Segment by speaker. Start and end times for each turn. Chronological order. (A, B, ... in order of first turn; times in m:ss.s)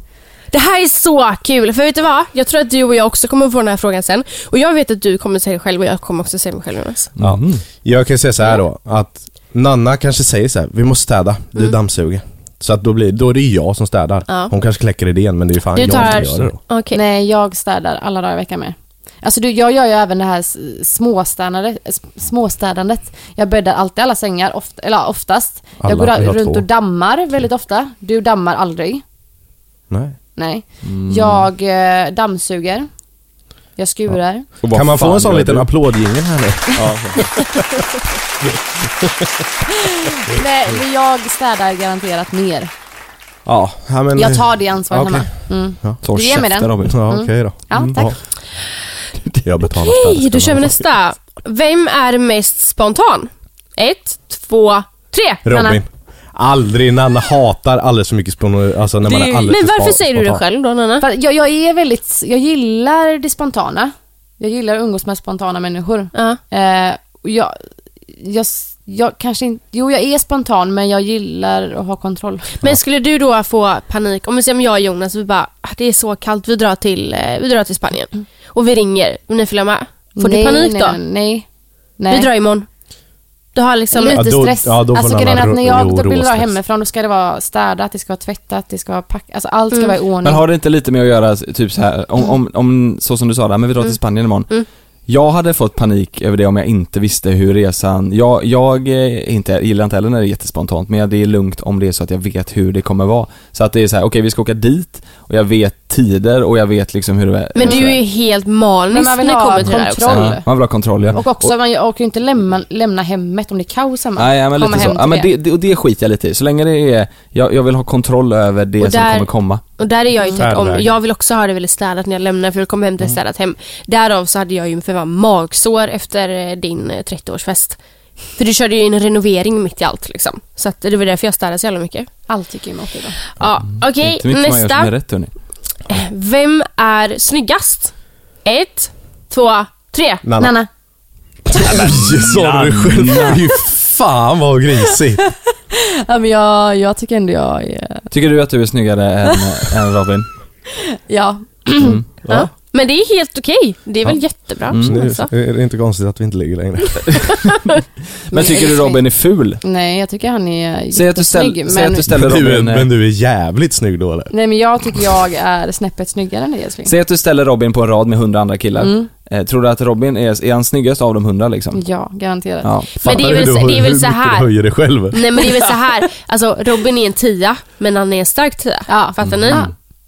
0:00.5-0:07.1 A
0:07.2-0:07.6 B
0:07.2-0:16.6 C
0:14.3-0:14.5 A
0:15.8-0:17.0 A
0:16.9-0:29.0 D
0:25.8-0:26.7 C
0:29.9-0:30.2 C
0:30.4-0:32.9 D
0:30.8-0:31.5 B
0:33.8-0:34.6 D
0:34.6-0:35.7 B
0:34.7-0:37.2 C
0:36.8-0:37.3 B
0:40.0-0:42.7 D
0:43.5-0:46.0 C
0:44.2-0:48.2 D
0:46.0-0:47.0 B
0:46.8-0:48.2 C
0:49.4-0:50.8 C
0:49.8-0:55.5 A
0:55.5-1:00.4 C
0:55.5-0:55.8 D
0:59.1-1:01.1 A
1:01.0-1:07.6 D
1:06.1-1:06.4 A
1:08.2-1:12.6 D
1:12.6-1:21.0 A
1:20.2-1:21.5 D
1:22.0-1:22.3 D
1:22.1-1:22.7 A
1:23.6-1:24.4 A
1:23.9-1:30.4 D
1:24.1-1:26.6 C
1:30.2-1:34.5 B
1:35.1-1:48.0 B
1:47.6-1:50.4 A
1:47.6-1:47.9 D
1:48.9-1:55.3 D
1:49.6-1:51.5 B
1:54.2-1:59.6 B
1:58.8-2:07.8 A
2:00.4-2:01.0 C
2:08.4-2:12.1 A
2:12.3-2:13.2 D
2:13.4-2:14.9 A
2:14.0-2:15.3 B
2:15.9-2:17.9 A
2:18.4-2:20.3 A
2:20.2-2:20.5 C
2:20.4-2:20.7 D
2:21.5-2:25.2 C
2:21.6-2:23.4 B
2:25.7-2:28.1 D
2:28.1-2:30.3 B
2:31.1-2:32.0 D
2:32.2-2:32.5 C
2:32.3-2:35.3 A
2:34.7-2:35.0 B
2:34.7-2:37.3 C
2:38.3-2:39.0 D
2:38.3-2:39.6 B
2:39.6-2:42.1 D
2:40.9-2:42.9 B
2:42.1-2:44.3 C
2:44.3-2:46.9 D
2:46.9-2:51.8 B
2:48.8-2:49.1 D
2:51.7-2:53.4 D
2:52.6-2:52.9 B
2:53.0-2:54.5 A
2:53.0-2:55.5 C
2:55.1-2:59.7 A
2:58.9-2:59.7 D
2:59.2-2:59.7 B